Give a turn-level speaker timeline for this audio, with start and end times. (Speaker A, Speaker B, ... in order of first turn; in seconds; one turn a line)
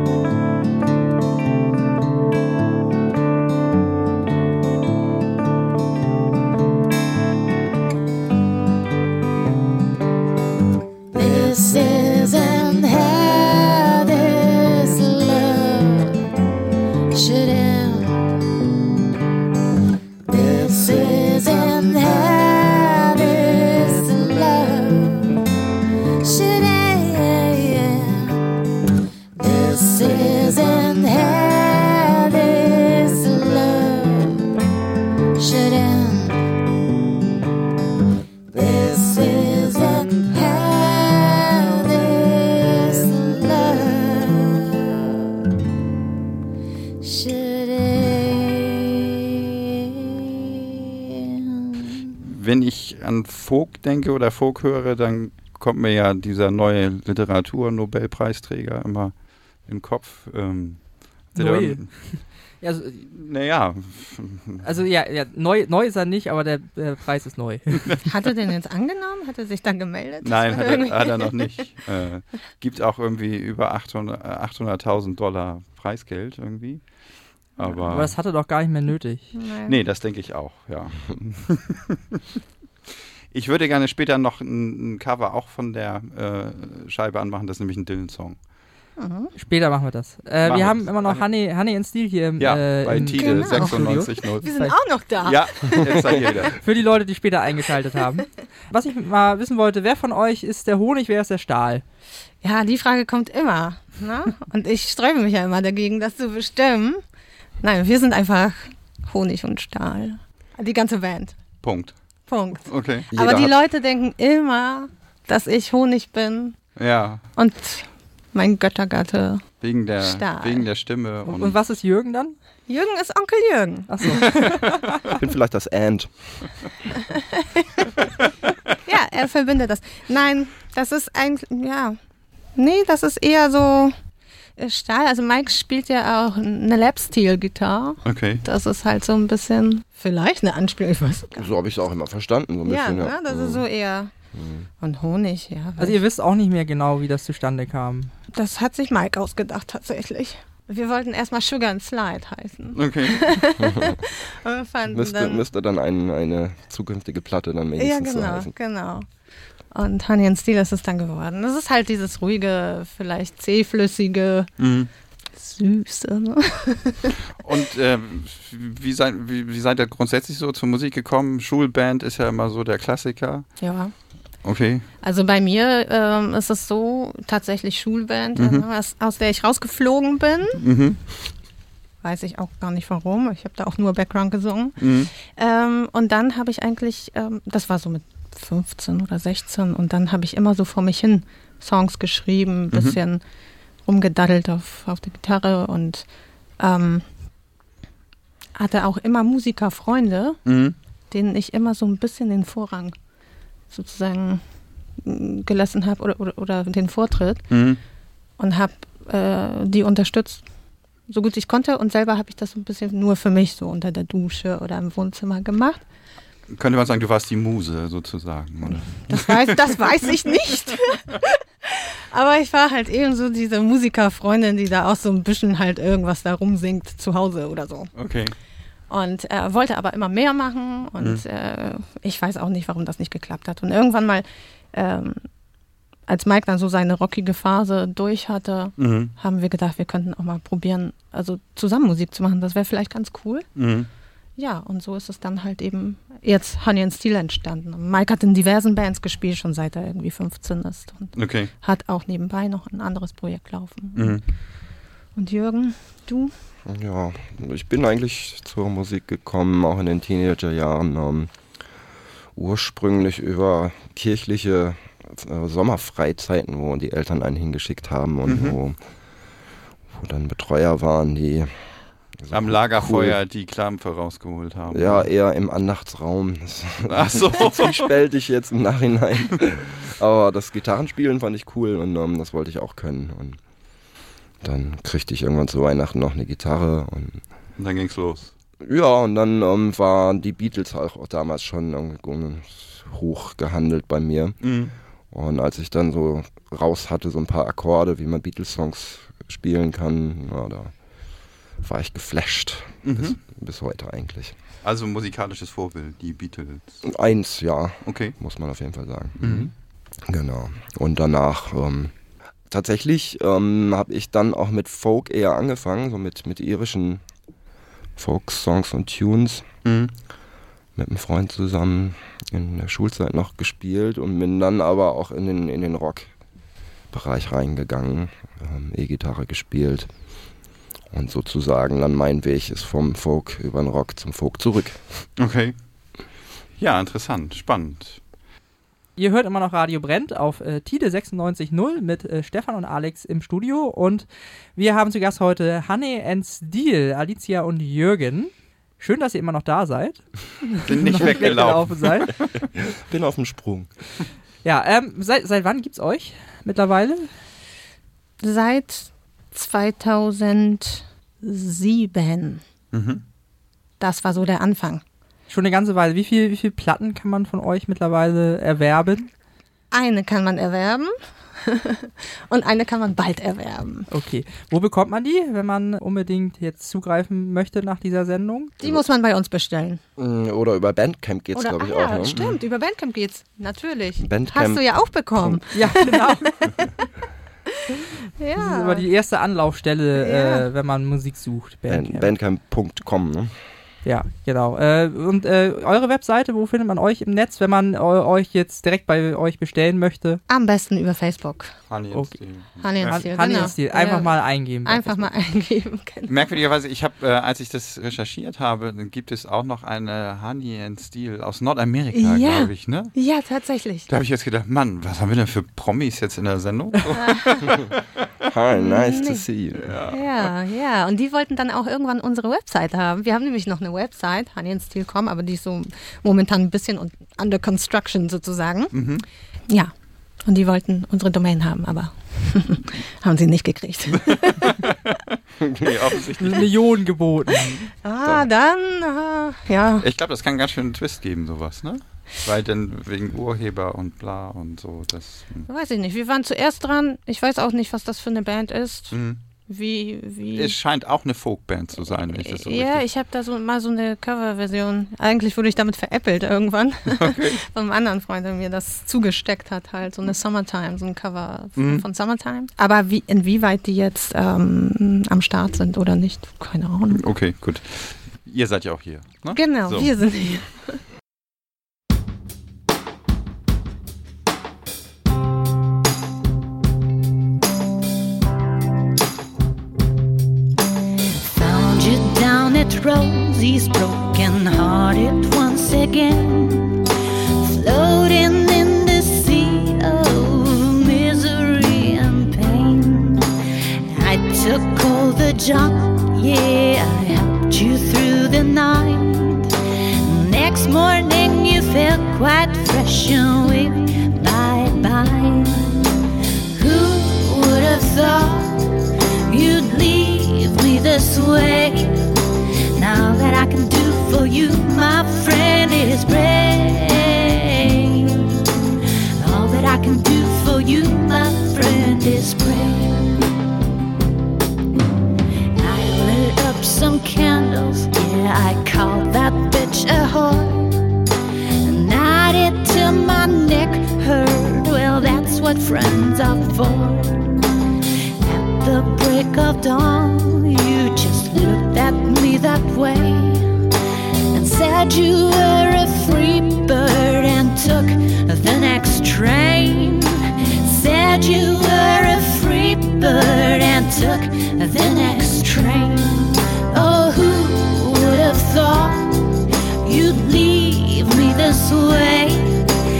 Speaker A: 11.1-16.3
Speaker A: 17.1-18.3
Speaker A: 20.3-25.4
Speaker A: 26.2-28.4
Speaker A: 29.4-34.5
Speaker A: 35.4-36.4
Speaker A: 38.5-45.3
Speaker A: 47.0-50.0
Speaker A: 51.2-52.1
Speaker B: 52.2-62.3
Speaker C: 61.3-63.1
Speaker B: 63.0-64.7
Speaker C: 64.6-68.0
Speaker D: 68.0-71.7
Speaker B: 70.2-78.2
Speaker D: 77.6-77.8
Speaker C: 77.9-79.3
Speaker D: 79.3-79.7
Speaker B: 79.7-82.0
Speaker B: 83.3-88.5
Speaker D: 89.0-89.3
Speaker C: 89.3-94.8
Speaker B: 90.4-91.2
Speaker B: 92.4-94.5
Speaker D: 93.1-96.5
Speaker B: 95.2-96.6
Speaker C: 96.5-101.8
Speaker D: 102.4-107.0
Speaker D: 107.6-111.4
Speaker B: 111.6-113.1
Speaker D: 112.2-116.6
Speaker E: 113.1-113.5
Speaker B: 116.8-117.3
Speaker D: 117.3-120.7
Speaker B: 119.6-121.6
Speaker C: 121.2-122.3
Speaker D: 122.7-124.2
Speaker C: 123.9-124.9
Speaker E: 125.0-126.5
Speaker D: 127.6-127.9
Speaker D: 128.8-132.0
Speaker D: 132.5-133.9
Speaker D: 134.6-141.4
Speaker B: 138.0-138.4
Speaker E: 141.3-143.6
Speaker D: 142.7-144.1
Speaker E: 144.3-144.7
Speaker D: 144.8-146.0
Speaker C: 145.8-148.1
Speaker D: 148.3-155.4
Speaker B: 152.7-153.4
Speaker E: 153.6-154.0
Speaker E: 154.9-158.5
Speaker D: 157.8-159.1
Speaker D: 159.7-164.5
Speaker B: 164.6-164.9
Speaker D: 165.3-167.1
Speaker B: 167.4-173.6
Speaker D: 173.6-173.9
Speaker B: 174.4-174.9
Speaker D: 175.0-180.6
Speaker B: 178.3-178.6
Speaker B: 180.6-181.0
Speaker D: 182.0-193.2
Speaker B: 184.8-185.1
Speaker B: 192.7-193.0
Speaker D: 193.8-197.1
Speaker D: 198.5-200.4
Speaker B: 200.4-200.8
Speaker D: 201.1-202.9
Speaker D: 203.7-204.4
Speaker D: 205.0-207.6
Speaker B: 207.5-207.8
Speaker D: 208.3-210.5
Speaker D: 211.0-215.8
Speaker B: 216.5-219.9
Speaker D: 219.0-227.9
Speaker B: 227.9-228.3
Speaker D: 228.9-235.3
Speaker D: 236.1-243.5
Speaker B: 238.8-239.1
Speaker B: 243.5-243.9
Speaker D: 244.3-254.2
Speaker B: 251.1-251.5
Speaker B: 253.9-254.2
Speaker D: 255.1-256.3
Speaker E: 256.6-261.4
Speaker E: 262.3-268.8
Speaker B: 268.3-268.6
Speaker E: 269.9-273.2
Speaker B: 272.3-275.1
Speaker E: 274.7-283.4
Speaker B: 276.9-277.9
Speaker E: 284.4-287.2
Speaker B: 287.6-288.3
Speaker E: 288.6-294.5
Speaker B: 294.4-294.7
Speaker E: 295.1-300.8
Speaker E: 301.6-304.4
Speaker B: 302.8-303.2
Speaker B: 304.6-306.9
Speaker E: 306.8-311.9
Speaker B: 307.8-308.2
Speaker B: 309.2-309.5
Speaker E: 312.5-317.0
Speaker E: 317.9-319.5
Speaker B: 319.6-319.9
Speaker E: 320.8-326.1
Speaker E: 326.9-329.9
Speaker E: 330.9-335.1
Speaker B: 335.2-338.0
Speaker C: 338.9-352.1
Speaker B: 350.6-352.3
Speaker E: 352.6-353.7
Speaker C: 354.4-357.1
Speaker D: 358.2-362.4
Speaker B: 362.7-363.0
Speaker D: 363.8-364.8
Speaker C: 365.3-369.1
Speaker D: 369.7-373.9
Speaker C: 373.9-378.5
Speaker D: 378.6-379.8
Speaker E: 380.0-382.3
Speaker D: 381.3-386.7
Speaker B: 382.1-382.4
Speaker E: 384.0-385.4
Speaker C: 385.5-386.3
Speaker D: 388.2-388.9
Speaker C: 388.4-392.1
Speaker D: 389.9-390.5
Speaker E: 391.7-393.4
Speaker C: 393.8-400.2
Speaker D: 400.3-401.6
Speaker B: 401.7-403.5
Speaker C: 401.9-405.1
Speaker D: 402.6-406.1
Speaker B: 406.1-412.9
Speaker D: 411.9-413.9
Speaker B: 413.9-417.8
Speaker D: 416.9-417.4
Speaker E: 418.3-419.6
Speaker D: 418.5-419.2
Speaker B: 419.5-420.3
Speaker D: 419.9-428.8
Speaker B: 428.7-429.1
Speaker D: 429.5-434.5
Speaker B: 434.1-435.0
Speaker B: 435.5-436.5
Speaker C: 436.2-437.6
Speaker D: 437.8-439.9
Speaker E: 438.0-438.3
Speaker B: 439.8-445.5
Speaker D: 445.5-450.6
Speaker B: 448.9-449.2
Speaker B: 450.3-452.8
Speaker D: 451.9-467.0
Speaker B: 456.9-457.4
Speaker B: 461.6-461.8
Speaker B: 466.9-469.9
Speaker D: 469.3-470.8
Speaker A: 481.2-493.3
Speaker A: 493.9-505.9
Speaker A: 506.5-508.7
Speaker A: 509.2-512.0
Speaker A: 512.7-518.4
Speaker A: 519.2-523.2
Speaker A: 525.5-530.9
Speaker A: 531.6-537.4
Speaker A: 538.2-543.5
Speaker A: 544.3-562.7